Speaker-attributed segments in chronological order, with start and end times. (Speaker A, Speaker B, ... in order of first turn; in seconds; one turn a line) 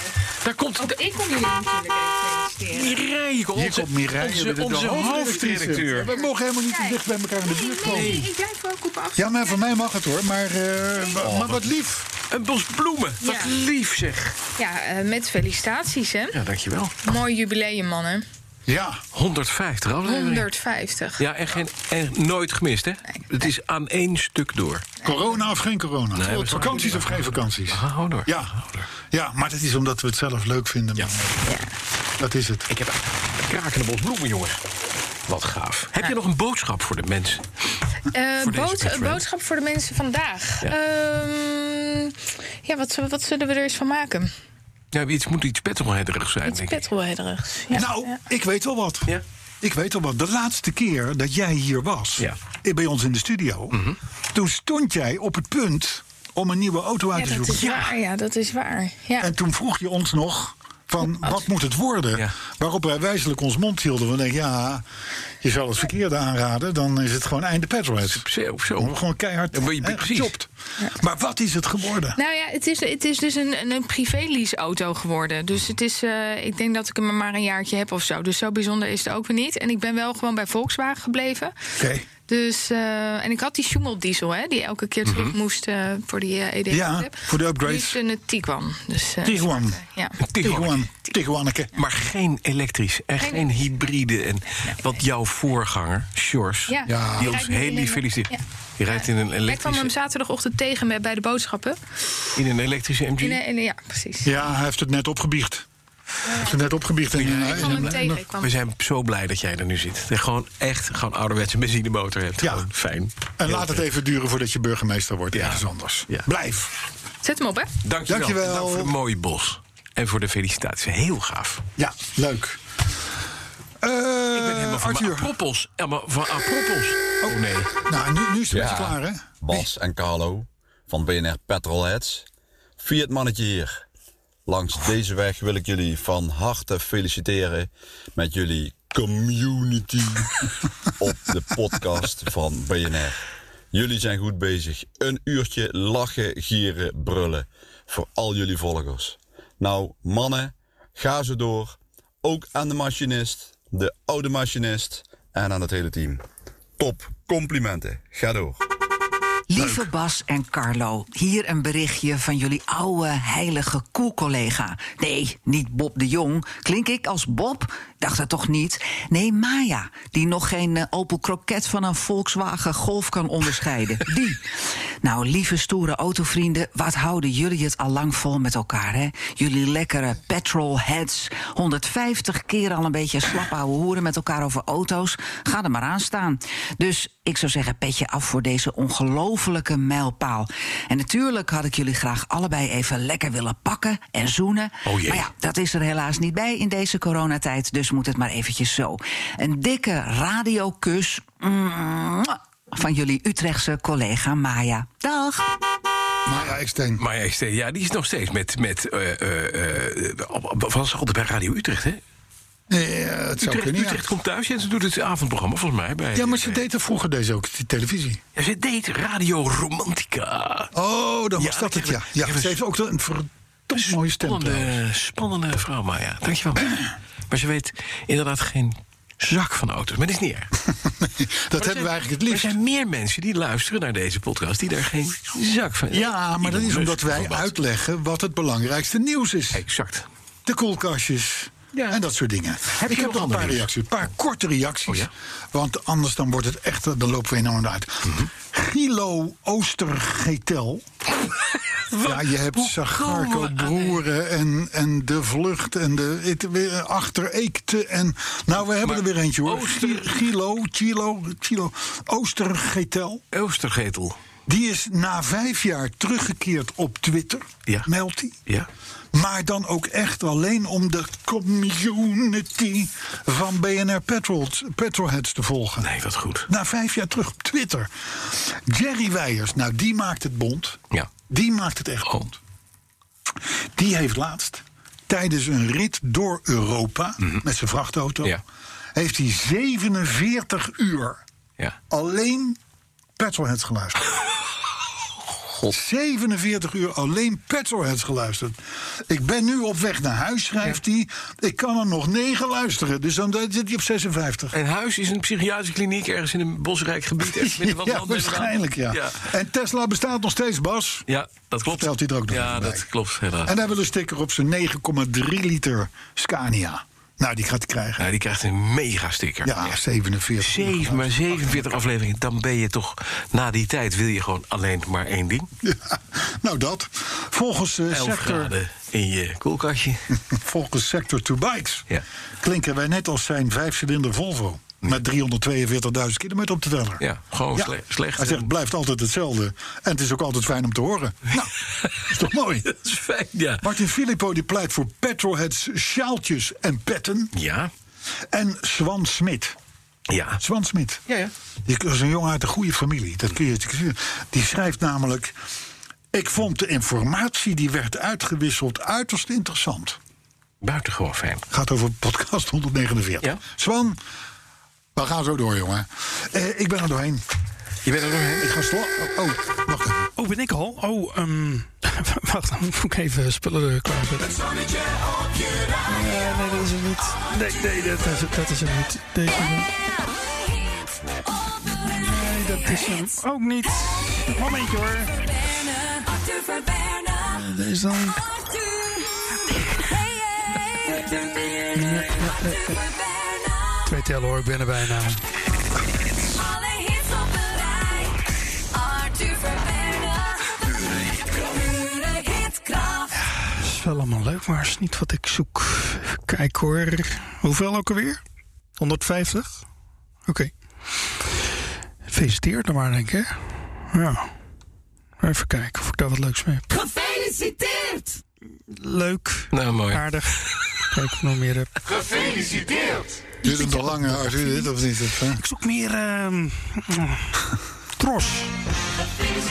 Speaker A: 0.4-1.0
Speaker B: 0.8-2.9
Speaker A: 2.7-6.1
Speaker C: 3.5-8.3
Speaker B: 6.1-9.6
Speaker A: 7.8-8.3
Speaker C: 9.2-12.1
Speaker A: 11.2-11.7
Speaker A: 12.3-14.4
Speaker B: 13.2-13.5
Speaker B: 14.6-16.4
Speaker A: 16.3-17.1
Speaker B: 17.1-18.2
Speaker C: 18.7-19.0
Speaker A: 19.1-20.5
Speaker B: 20.1-21.2
Speaker A: 21.2-24.9
Speaker C: 25.0-28.5
Speaker B: 25.1-25.4
Speaker A: 26.1-28.9
Speaker C: 29.1-31.6
Speaker C: 32.2-32.7
Speaker A: 32.7-34.6
Speaker A: 35.3-37.5
Speaker B: 38.1-44.3
Speaker A: 38.4-39.2
Speaker A: 44.9-46.8
Speaker B: 46.5-48.1
Speaker C: 47.7-49.1
Speaker C: 49.6-53.8
Speaker A: 53.7-54.0
Speaker C: 54.3-57.8
Speaker B: 57.1-59.3
Speaker A: 57.5-57.9
Speaker C: 59.2-64.8
Speaker C: 65.4-68.3
Speaker A: 68.0-68.9
Speaker C: 68.8-72.2
Speaker A: 69.5-70.3
Speaker B: 72.2-81.5
Speaker C: 81.8-82.1
Speaker B: 82.2-90.2
Speaker A: 85.0-85.3
Speaker C: 86.7-88.0
Speaker C: 89.2-89.8
Speaker A: 90.2-90.8
Speaker C: 90.4-91.7
Speaker A: 91.7-99.9
Speaker B: 93.2-93.6
Speaker B: 96.7-98.4
Speaker C: 96.9-97.4
Speaker B: 98.9-101.8
Speaker A: 102.4-103.4
Speaker B: 103.2-104.4
Speaker C: 104.2-105.7
Speaker B: 106.3-106.8
Speaker C: 106.4-108.2
Speaker A: 107.1-113.8
Speaker B: 107.3-108.5
Speaker C: 112.4-112.7
Speaker C: 113.4-116.7
Speaker A: 115.3-116.3
Speaker B: 117.2-117.7
Speaker A: 117.8-121.6
Speaker C: 118.1-118.9
Speaker C: 121.8-122.6
Speaker C: 123.8-125.3
Speaker A: 124.3-127.7
Speaker C: 127.2-129.7
Speaker D: 128.5-132.3
Speaker D: 132.8-133.8
Speaker D: 134.5-140.4
Speaker D: 141.0-143.2
Speaker D: 143.7-156.2
Speaker D: 156.8-158.6
Speaker E: 159.5-174.4
Speaker E: 175.0-205.4
Speaker A: 194.9-195.3
Speaker C: 206.3-207.0
Speaker A: 206.4-212.0
Speaker C: 212.7-214.0
Speaker A: 213.4-216.6
Speaker C: 216.1-218.2
Speaker A: 218.3-220.7
Speaker C: 220.7-224.8
Speaker A: 221.4-222.6
Speaker A: 223.7-226.8
Speaker A: 227.3-230.5
Speaker C: 230.9-232.6
Speaker A: 231.6-237.5
Speaker C: 235.9-239.6
Speaker A: 239.5-240.1
Speaker C: 240.4-250.8
Speaker A: 241.7-242.0
Speaker A: 242.7-243.7
Speaker A: 248.1-248.3
Speaker A: 251.9-254.0
Speaker C: 252.0-263.2
Speaker A: 258.8-260.3
Speaker A: 263.3-264.2
Speaker C: 264.5-268.4
Speaker C: 269.1-275.9
Speaker A: 275.8-276.5
Speaker C: 276.5-282.4
Speaker C: 283.8-288.4
Speaker C: 288.9-291.2
Speaker C: 291.9-292.6
Speaker C: 293.2-294.0
Speaker C: 295.7-304.6
Speaker A: 304.5-309.2
Speaker C: 307.2-311.1
Speaker A: 311.1-313.6
Speaker C: 311.7-312.9
Speaker C: 313.4-318.1
Speaker A: 318.0-319.8
Speaker C: 319.4-321.8
Speaker A: 320.4-325.5
Speaker C: 325.6-328.5
Speaker A: 327.9-330.0
Speaker C: 330.3-331.9
Speaker C: 332.4-337.0
Speaker A: 337.0-338.5
Speaker C: 337.6-341.5
Speaker C: 342.1-342.7
Speaker A: 342.7-343.6
Speaker C: 343.6-347.3
Speaker A: 347.3-347.7
Speaker C: 348.3-349.6
Speaker A: 350.1-350.4
Speaker C: 350.4-351.0
Speaker C: 351.7-355.3
Speaker C: 356.1-360.0
Speaker A: 360.6-361.4
Speaker C: 361.5-364.0
Speaker C: 364.9-367.2
Speaker A: 367.8-368.4
Speaker C: 368.4-370.1
Speaker F: 370.2-374.6
Speaker F: 375.8-379.7
Speaker F: 381.8-385.2
Speaker F: 387.3-388.2
Speaker F: 391.7-392.8
Speaker F: 393.8-395.2
Speaker F: 403.2-408.2
Speaker F: 408.8-409.6
Speaker F: 410.3-410.5
Speaker F: 412.1-413.3
Speaker F: 413.9-414.3
Speaker F: 415.2-416.7
Speaker F: 418.7-422.4
Speaker A: 419.5-420.2
Speaker C: 423.4-425.4
Speaker F: 423.4-424.7
Speaker F: 425.4-427.3
Speaker F: 428.0-428.5